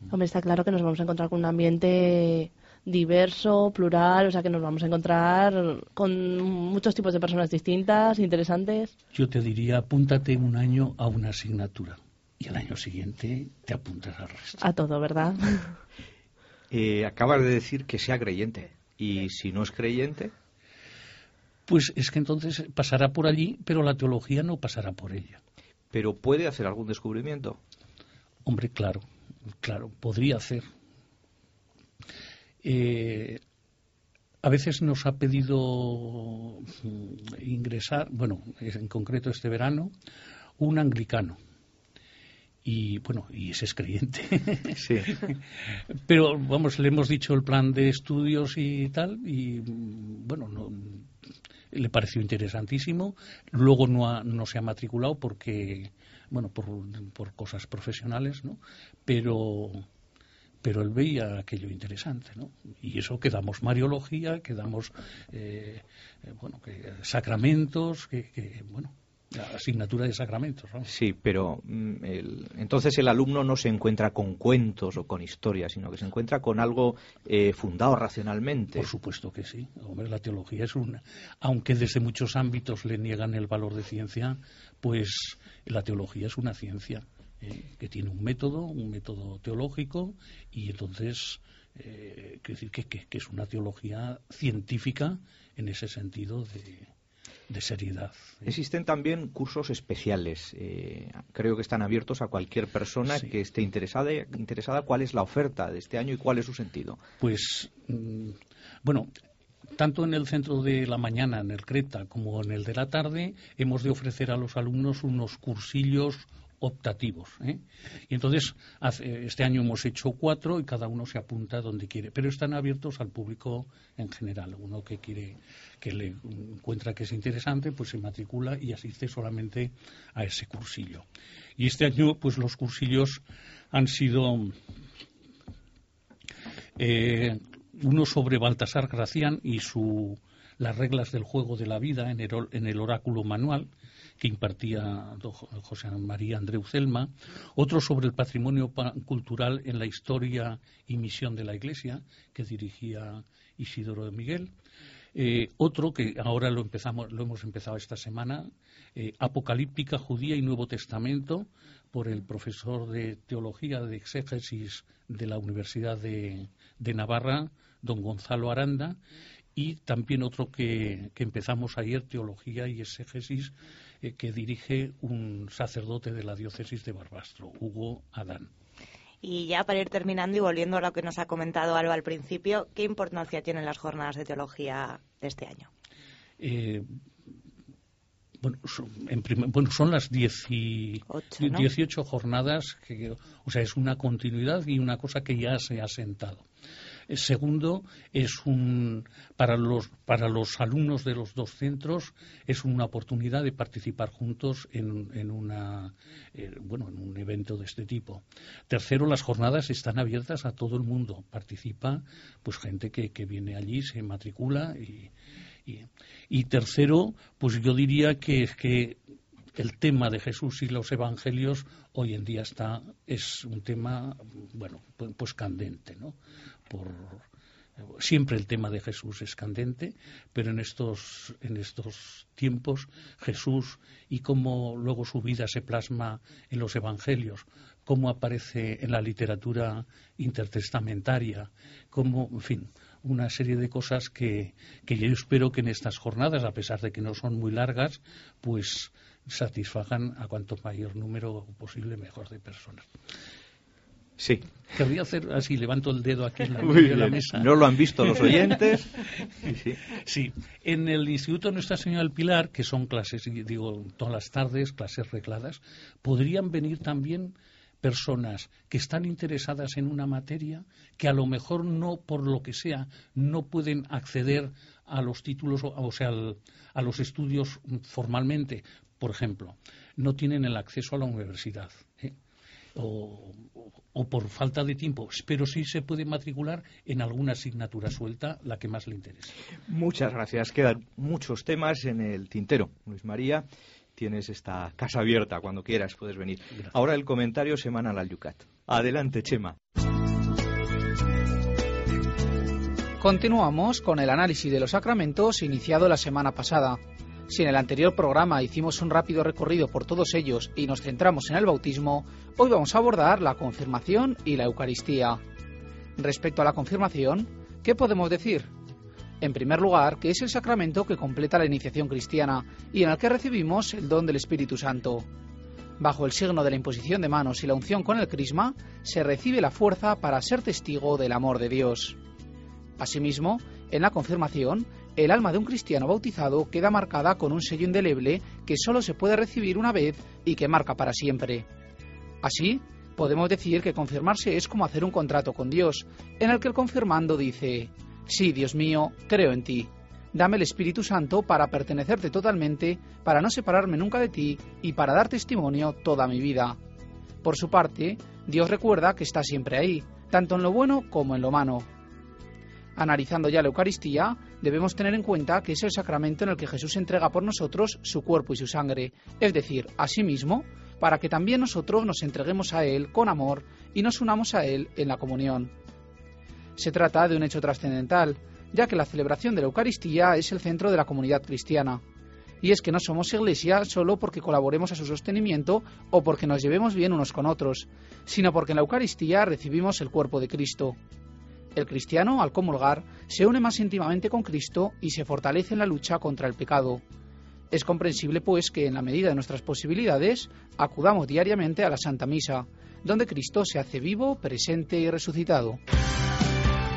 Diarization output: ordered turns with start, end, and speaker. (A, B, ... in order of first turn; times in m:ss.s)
0:00.1-0:08.9 A
0:09.1-0:14.6 B
0:14.6-0:15.7 A
0:16.7-0:20.3 C
0:21.7-0:25.4 B
0:25.9-0:27.6 C
0:28.4-0:29.0 B
0:29.6-0:30.6 B
0:32.6-0:33.4 B
0:34.4-0:39.9 B
0:40.6-0:41.4 B
0:42.6-0:45.4 B
0:44.8-0:45.1 C
0:46.0-0:51.1 B
0:51.7-0:59.8 B
1:00.6-1:10.9 B
1:10.8-1:18.9 C
1:18.8-1:36.9 B
1:37.5-1:38.5 B
1:38.5-1:47.0 C
1:47.2-1:49.1 B
1:49.7-2:11.0 B
2:11.6-2:13.2 B
2:13.7-2:14.5 B
2:16.8-2:23.7 B
2:24.2-2:34.5 B
2:35.1-2:49.0 B
2:49.6-2:58.5 B
2:59.2-3:05.7 D
3:06.4-3:06.9 B
3:08.4-3:16.4 B
3:11.1-3:11.7 D
3:17.1-3:35.1 B
3:35.6-3:39.0 B
3:39.5-3:46.2 B
3:46.7-3:47.2 B
3:47.8-4:12.9 B
4:14.2-4:14.5 C
4:14.7-4:17.5 B
4:16.6-4:19.8 C
4:18.1-4:18.4 B
4:19.9-4:42.1 B
4:42.8-4:49.3 B
4:49.7-4:59.6 C
5:03.0-5:15.2 E
5:16.0-5:18.5 E
5:19.2-5:25.1 E
5:25.8-5:32.0 E
5:32.8-5:41.5 E
5:42.2-5:56.6 E
5:57.2-6:01.7 E
6:02.8-6:15.5 E
6:16.6-6:21.8 E
6:22.4-6:30.8 E
6:31.5-6:36.8 E
6:37.5-6:45.6 E